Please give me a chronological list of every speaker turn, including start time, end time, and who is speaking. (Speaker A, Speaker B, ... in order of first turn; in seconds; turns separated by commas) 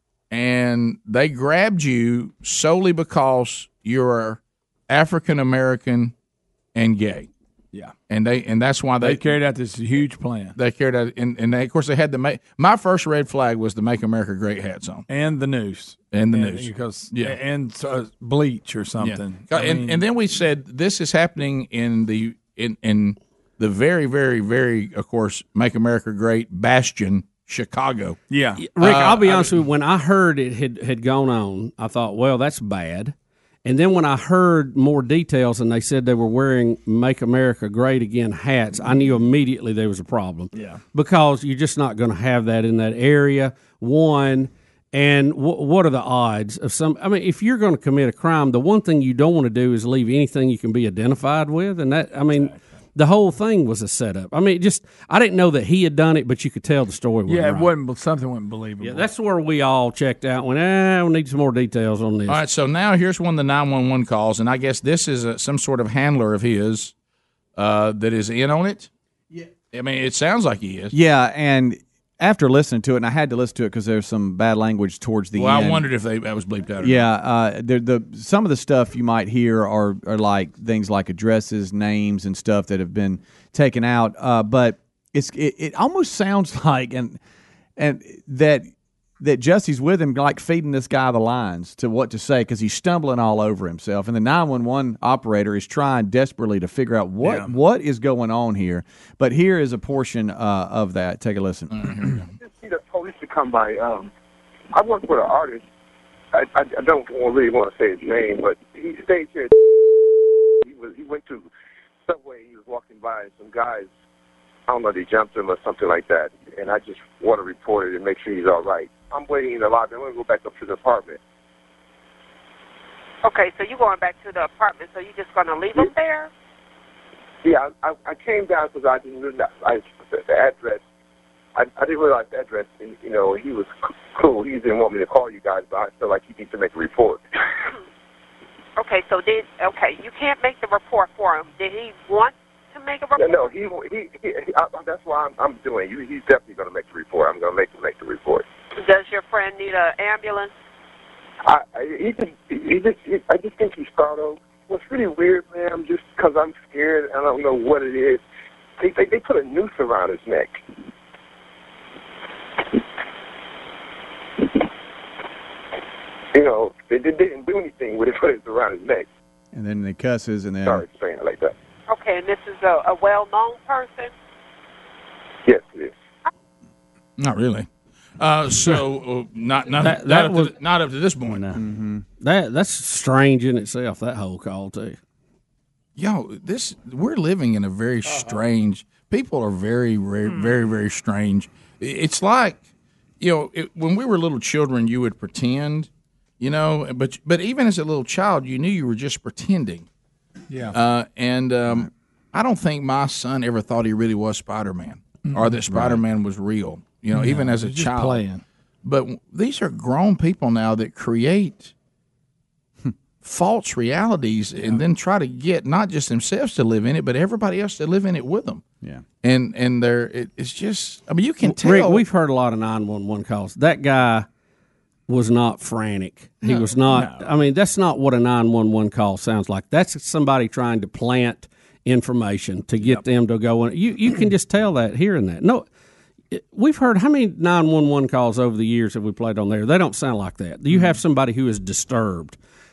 Speaker A: 0.3-6.1, Speaker A: 6.8-7.3, Speaker A: 8.1-9.2, Speaker B: 9.0-10.6, Speaker A: 10.6-15.1, Speaker B: 15.1-20.0, Speaker A: 16.1-17.4, Speaker A: 19.0-28.2, Speaker B: 28.3-28.6, Speaker C: 28.6-33.1, Speaker A: 28.8-29.5, Speaker C: 33.6-57.7, Speaker B: 57.3-59.1, Speaker C: 58.8-62.4, Speaker A: 62.3-66.9, Speaker A: 67.6-68.9, Speaker A: 69.7-71.0, Speaker D: 70.9-75.8, Speaker A: 75.3-77.1, Speaker D: 76.8-87.2, Speaker D: 87.8-88.7, Speaker D: 89.2-101.9, Speaker B: 97.2-97.5, Speaker A: 101.7-102.3, Speaker E: 102.4-104.1, Speaker E: 104.7-105.6, Speaker E: 106.3-109.5, Speaker E: 110.6-111.5, Speaker E: 112.1-113.9, Speaker E: 114.7-121.2, Speaker F: 123.2-126.3, Speaker E: 127.4-130.8, Speaker E: 131.6-137.2, Speaker F: 138.8-143.4, Speaker E: 143.2-148.4, Speaker F: 148.8-150.5, Speaker E: 151.4-158.2, Speaker E: 158.8-160.6, Speaker E: 166.3-169.1, Speaker D: 169.5-170.8, Speaker E: 170.7-171.5, Speaker F: 171.9-174.1, Speaker E: 175.5-175.9, Speaker A: 177.2-177.7, Speaker A: 178.2-181.5, Speaker C: 179.8-180.5, Speaker D: 181.6-182.0, Speaker C: 182.2-185.0, Speaker A: 186.0-192.6, Speaker A: 193.2-195.9, Speaker A: 196.4-199.9, Speaker A: 200.7-208.2, Speaker D: 205.7-206.0, Speaker B: 207.1-208.4, Speaker A: 208.8-211.7, Speaker A: 213.2-218.6, Speaker A: 219.2-222.0, Speaker C: 221.4-224.3, Speaker C: 225.1-235.7, Speaker C: 236.3-242.4